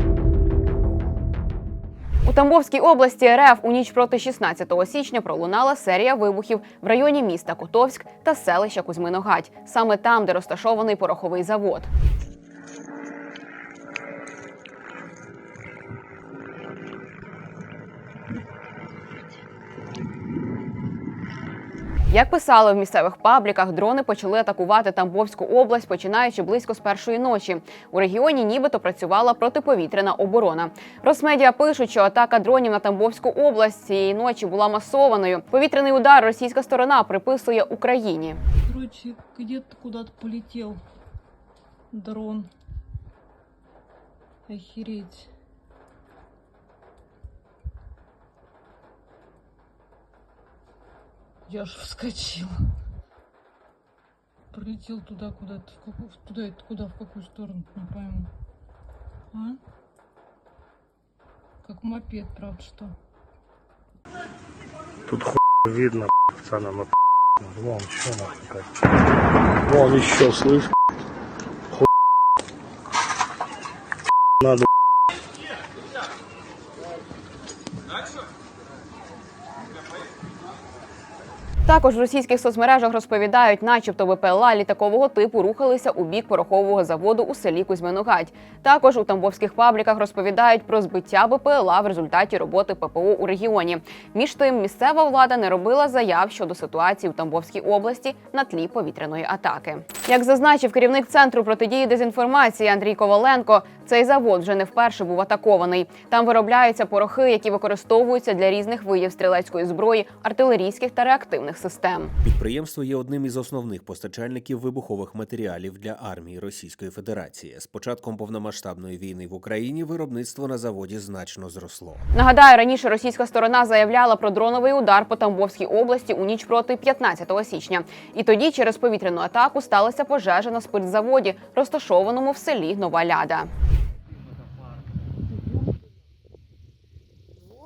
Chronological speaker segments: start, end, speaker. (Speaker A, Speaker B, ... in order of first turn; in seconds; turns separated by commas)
Speaker A: 2.2-11.9, Speaker A: 22.1-38.4, Speaker B: 38.7-40.8, Speaker B: 41.9-42.5, Speaker B: 44.5-45.3, Speaker B: 51.5-52.6, Speaker B: 54.5-58.3, Speaker B: 59.3-59.6, Speaker B: 61.6-62.9, Speaker C: 65.1-68.7, Speaker C: 69.7-70.7, Speaker C: 74.4-74.7, Speaker A: 81.7-112.1, Speaker D: 112.2-122.1, Speaker A: 122.1-133.5